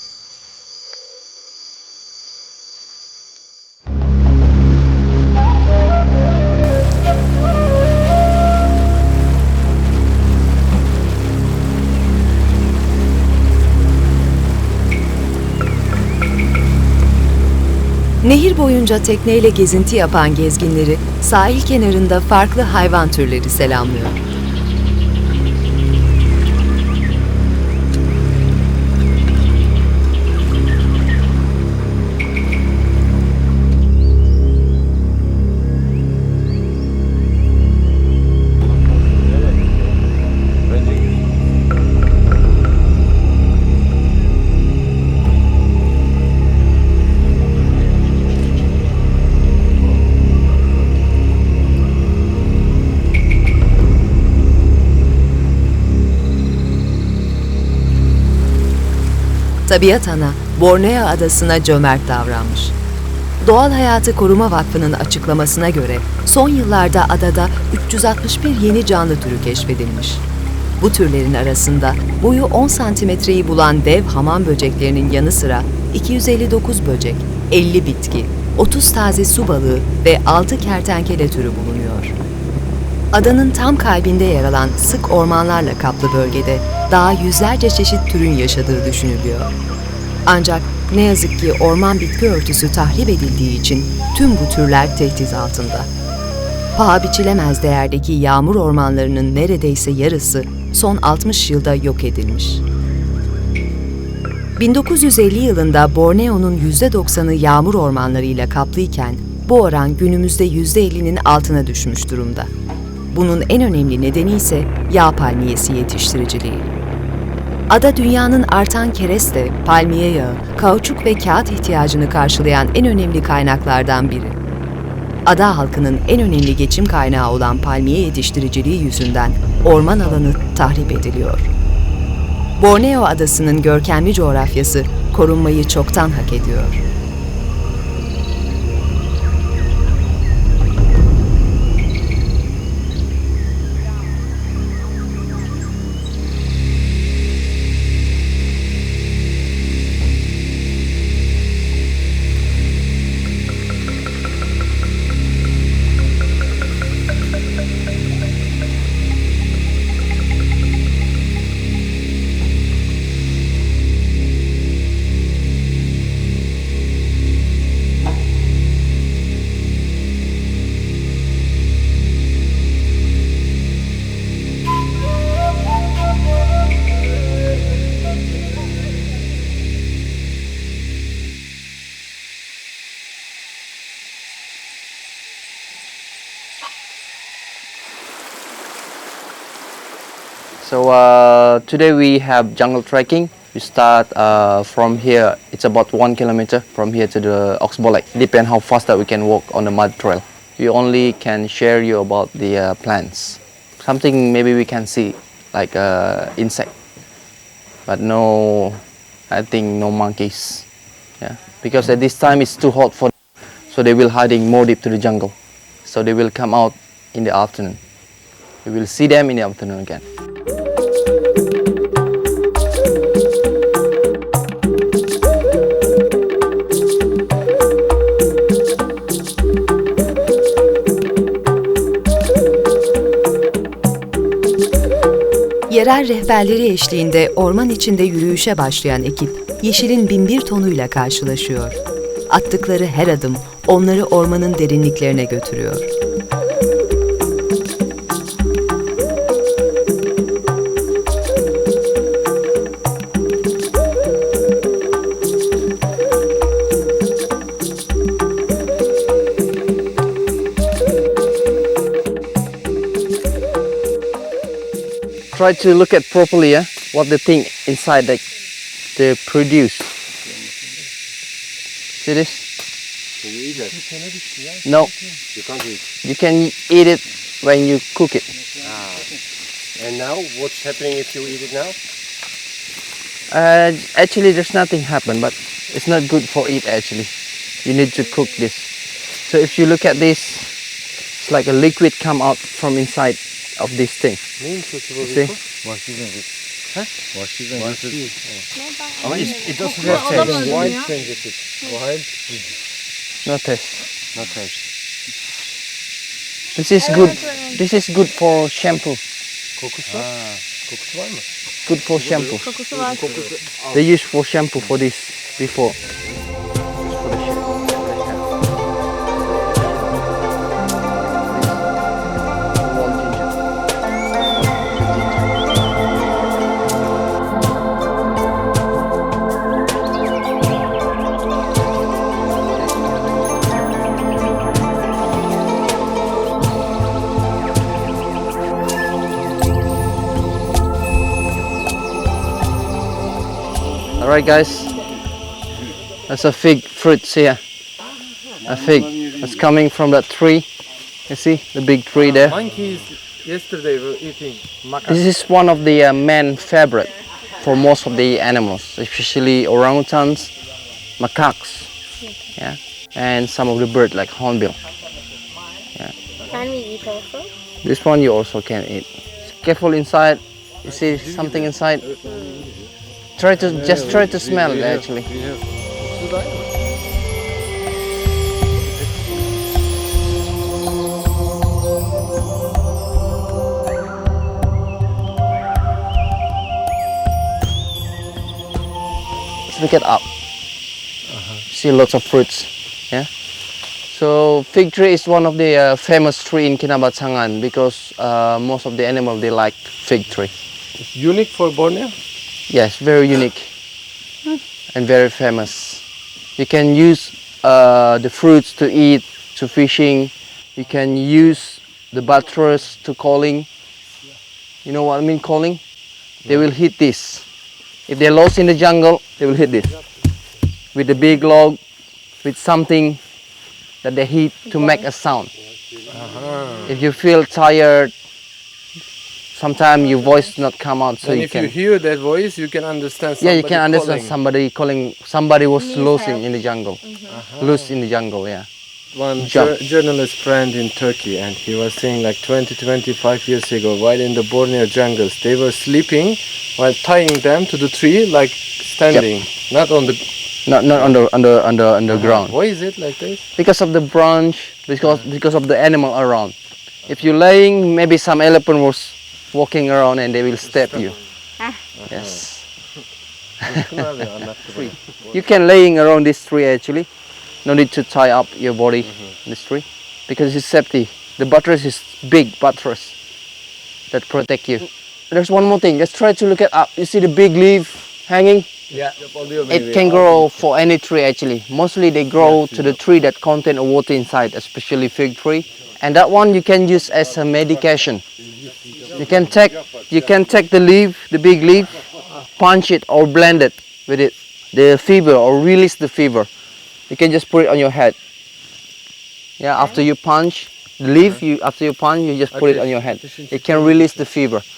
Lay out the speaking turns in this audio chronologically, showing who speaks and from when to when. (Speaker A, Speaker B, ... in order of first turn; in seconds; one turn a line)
Speaker A: 18.2-24.2
Speaker B: 39.3-39.6
Speaker C: 40.6-41.2
Speaker A: 59.7-62.7
Speaker A: 63.4-70.2
Speaker A: 70.8-82.2
Speaker A: 83.1-89.5
Speaker A: 90.2-95.9
Speaker A: 96.8-102.6
Speaker A: 104.6-112.5
Speaker A: 113.1-116.7
Speaker A: 117.7-124.3
Speaker A: 125.2-131.5
Speaker A: 132.6-136.8
Speaker D: 190.6-206.7
Speaker D: 207.9-210.7
Speaker D: 211.2-213.1
Speaker D: 213.7-215.3
Speaker D: 215.8-217.8
Speaker D: 218.6-220.0
Speaker A: 235.7-245.9
Speaker D: 265.3-268.2
Speaker D: 268.9-269.9
Speaker B: 270.2-270.5
Speaker D: 272.0-272.4
Speaker B: 273.2-273.8
Speaker C: 273.7-275.2
Speaker D: 274.6-274.9
Speaker B: 275.3-275.8
Speaker D: 276.0-278.2
Speaker B: 278.6-279.2
Speaker B: 279.8-281.8
Speaker D: 283.3-287.1
Speaker D: 287.6-290.5
Speaker D: 291.2-294.2
Speaker C: 294.4-295.4
Speaker D: 295.0-295.3
Speaker C: 297.5-298.4
Speaker B: 297.6-298.0
Speaker E: 298.5-300.9
Speaker C: 299.0-302.6
Speaker D: 303.2-303.9
Speaker D: 306.5-309.0
Speaker E: 306.8-307.6
Speaker C: 309.6-311.2
Speaker D: 311.6-312.5
Speaker B: 312.0-313.4
Speaker E: 312.4-313.1
Speaker C: 312.8-313.4
Speaker D: 313.7-315.8
Speaker D: 316.8-318.2
Speaker D: 319.3-320.0
Speaker D: 321.3-321.7
Speaker D: 322.6-323.3
Speaker D: 324.7-325.3
Speaker D: 344.0-344.8
Speaker D: 346.1-347.4
Speaker D: 348.4-350.5
Speaker D: 351.1-352.4
Speaker C: 351.9-355.0
Speaker D: 354.9-360.3
Speaker D: 361.0-361.7
Speaker E: 362.0-362.3
Speaker D: 362.4-364.6
Speaker E: 366.3-367.3
Speaker D: 367.6-371.8
Speaker C: 370.7-372.4
Speaker E: 372.0-372.5
Speaker D: 373.2-375.1
Speaker C: 373.3-376.5
Speaker D: 389.5-390.0
Speaker C: 391.1-391.4
Speaker D: 391.5-393.1
Speaker D: 393.9-400.3
Speaker C: 400.8-401.9
Speaker D: 402.5-403.5
Speaker D: 404.7-405.8
Speaker D: 406.4-413.5
Speaker D: 414.6-415.6
Speaker D: 416.2-417.2
Speaker D: 417.9-419.8
Speaker D: 420.7-421.6
Speaker D: 422.2-423.0
Speaker D: 423.8-425.3
Speaker E: 424.5-424.9
Speaker B: 425.4-426.7
Speaker C: 425.9-426.8
Speaker D: 426.6-427.9
Speaker D: 429.3-431.5
Speaker E: 429.8-430.4
Speaker C: 431.0-434.1
Speaker D: 433.2-436.8
Speaker E: 435.6-437.2
Speaker C: 437.1-437.7
Speaker D: 437.4-438.5
Speaker C: 438.9-450.1
Speaker D: 439.2-439.5
Speaker D: 450.4-452.4
Speaker C: 450.7-451.0
Speaker C: 451.9-453.3
Speaker D: 453.4-461.0
Speaker C: 460.5-460.8
Speaker C: 461.7-462.5
Speaker D: 461.9-462.5
Speaker C: 463.4-464.8
Speaker D: 465.1-466.9
Speaker D: 467.4-472.9
Speaker C: 468.8-469.1
Speaker D: 473.9-478.5
Speaker D: 479.5-488.0
Speaker C: 479.5-480.0
Speaker C: 482.2-482.8
Speaker B: 488.3-490.0
Speaker D: 488.9-491.8
Speaker D: 492.4-496.3
Speaker D: 496.9-497.9
Speaker D: 499.4-504.4
Speaker C: 502.3-504.0